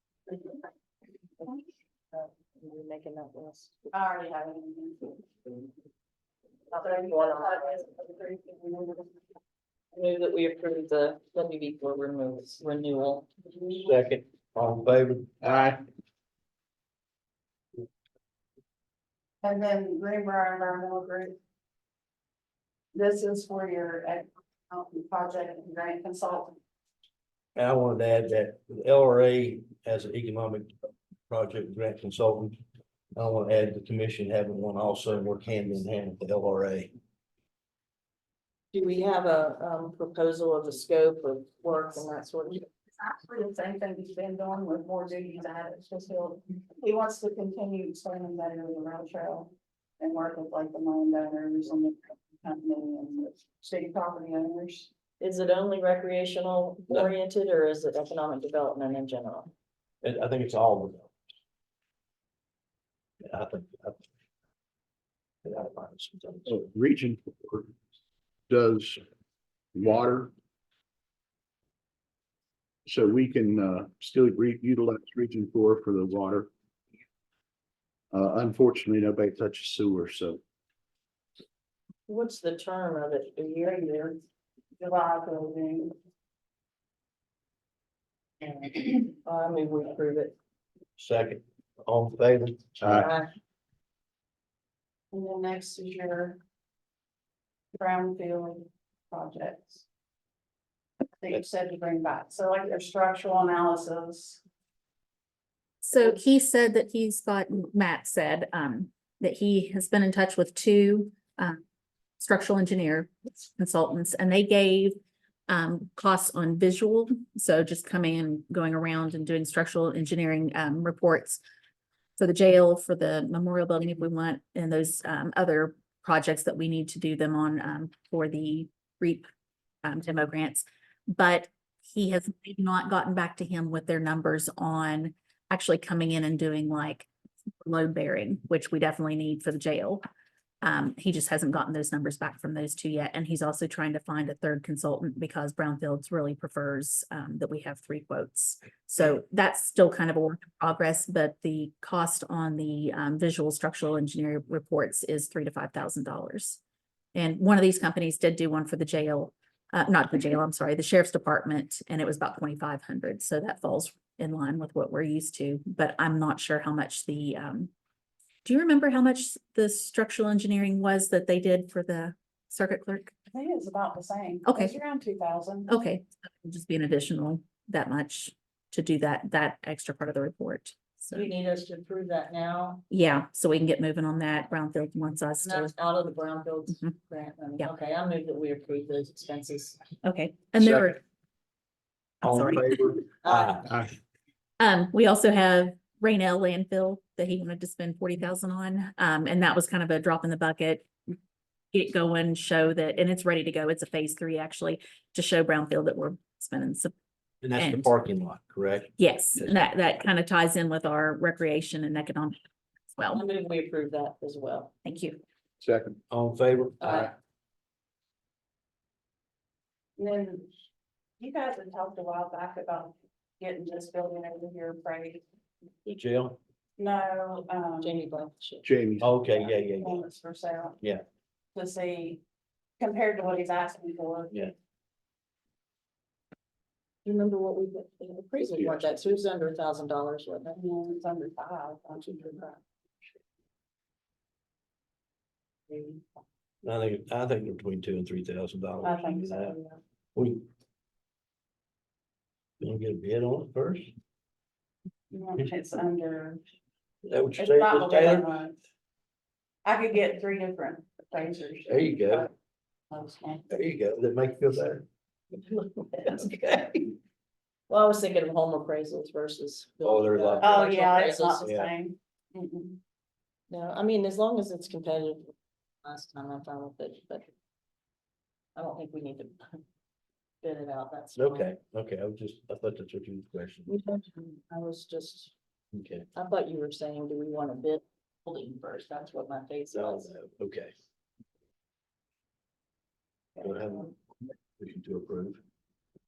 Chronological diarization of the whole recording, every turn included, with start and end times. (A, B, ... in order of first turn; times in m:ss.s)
0:02.1-0:04.0 A
0:03.9-0:05.2 B
0:06.7-0:07.9 A
0:06.7-0:09.2 B
0:09.9-0:13.3 A
0:13.5-0:13.9 B
0:13.8-0:15.4 C
0:15.4-0:15.8 D
0:19.4-0:21.4 B
0:22.9-0:26.6 B
0:27.6-0:30.7 C
0:31.3-0:32.6 C
0:33.2-0:36.9 C
0:38.7-0:42.7 A
0:43.0-0:54.9 B
0:55.2-0:59.5 A
1:00.0-1:01.1 C
1:03.2-1:04.0 C
1:05.4-1:06.5 C
1:06.5-1:07.7 D
1:08.5-1:09.0 D
1:09.7-1:10.3 D
1:12.9-1:16.5 D
1:18.1-1:20.4 D
1:22.1-1:24.0 A
1:23.6-1:24.2 B
1:24.8-1:26.0 B
1:28.5-1:30.4 A
1:31.0-1:32.9 C
1:32.8-1:33.1 D
1:32.9-1:33.3 A
1:35.1-1:36.4 B
1:37.7-1:39.8 B
1:41.2-1:44.4 B
1:45.8-1:51.6 E
1:52.2-1:55.0 E
1:55.5-2:01.4 E
2:02.2-2:09.3 E
2:09.8-2:17.1 E
2:17.6-2:20.0 E
2:20.6-2:36.6 E
2:37.2-2:47.7 E
2:48.4-2:53.1 E
2:53.3-2:55.7 B
2:54.4-2:54.8 E
2:55.7-3:01.3 E
3:01.1-3:02.8 A
3:02.9-3:05.7 E
3:05.4-3:09.8 A
3:10.0-3:11.0 E
3:12.2-3:13.7 C
3:12.2-3:12.8 E
3:13.2-3:13.7 A
3:14.6-3:20.9 E
3:21.7-3:26.9 E
3:27.4-3:28.9 C
3:27.6-3:27.9 E
3:29.0-3:32.4 E
3:33.0-3:33.2 E
3:33.1-3:34.7 A
3:34.8-3:35.2 E
3:35.6-3:36.0 D
3:36.1-3:36.8 C
3:36.8-3:37.1 A
3:40.0-3:40.5 B
3:41.2-3:45.2 B
3:45.8-3:46.4 C
3:46.8-3:48.0 B
3:47.8-3:48.7 A
3:48.6-3:49.2 D
3:49.0-3:50.0 C
3:49.3-3:50.8 B
3:51.6-3:52.2 B
3:52.8-3:54.4 B
3:57.0-4:00.6 A
3:58.5-3:58.9 D
4:00.5-4:02.4 B
4:02.0-4:02.6 A
4:06.6-4:09.6 C
4:08.8-4:09.8 B
4:10.2-4:10.4 C
4:12.6-4:13.9 C
4:15.1-4:16.4 B
4:17.0-4:18.4 C
4:17.4-4:18.6 B
4:19.6-4:22.3 B
4:21.7-4:22.3 C
4:22.9-4:23.4 B
4:23.5-4:24.9 C
4:25.4-4:26.9 C
4:27.7-4:31.5 A
4:29.8-4:30.6 C
4:30.4-4:32.8 B
4:31.4-4:31.7 C
4:33.5-4:37.3 A
4:38.6-4:39.6 A
4:40.4-4:41.6 A
4:41.2-4:43.7 C
4:43.7-4:45.3 A
4:45.7-4:46.1 C
4:46.1-4:50.1 A
4:49.7-4:50.7 C
4:53.4-4:53.9 A
4:53.4-4:53.9 C
4:54.6-4:55.4 C